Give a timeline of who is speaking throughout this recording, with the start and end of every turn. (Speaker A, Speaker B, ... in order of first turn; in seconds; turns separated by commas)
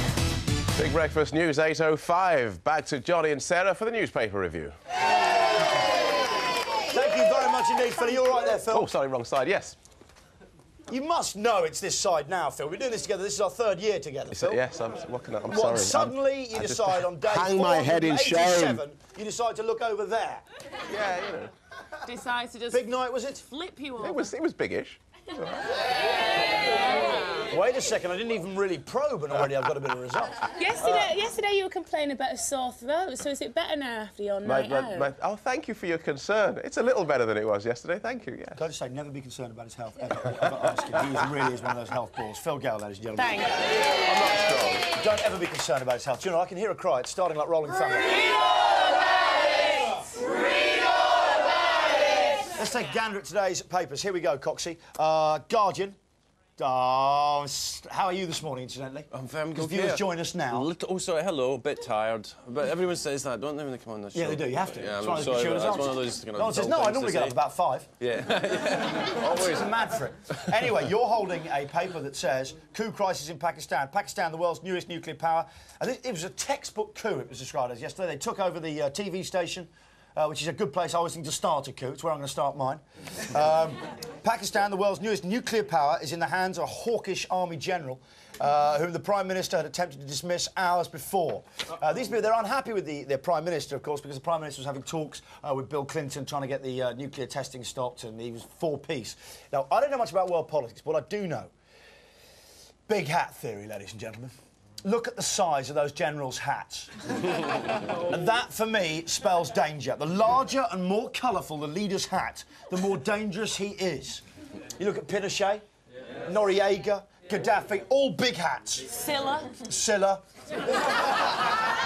Speaker A: 0.7-4.8, Speaker B: 6.9-8.9, Speaker A: 8.6-9.8, Speaker B: 10.9-14.6, Speaker A: 14.3-18.8, Speaker B: 15.5-20.4, Speaker C: 17.4-18.7, Speaker A: 20.9-21.5, Speaker D: 22.0-24.3, Speaker B: 22.7-23.4, Speaker A: 24.0-25.6, Speaker D: 26.9-27.4, Speaker B: 27.5-31.1, Speaker D: 30.5-35.1, Speaker A: 34.4-38.6, Speaker B: 38.5-43.5, Speaker D: 43.1-43.7, Speaker A: 44.0-44.9, Speaker B: 44.9-48.2, Speaker B: 52.5-56.0, Speaker B: 56.6-60.7, Speaker C: 59.1-67.4, Speaker B: 64.1-67.9, Speaker C: 68.0-69.8, Speaker B: 69.2-101.5, Speaker B: 102.9-104.3, Speaker B: 104.8-107.4, Speaker B: 108.0-114.2, Speaker B: 114.8-115.6, Speaker B: 116.2-118.9, Speaker D: 118.9-119.5, Speaker B: 119.6-120.2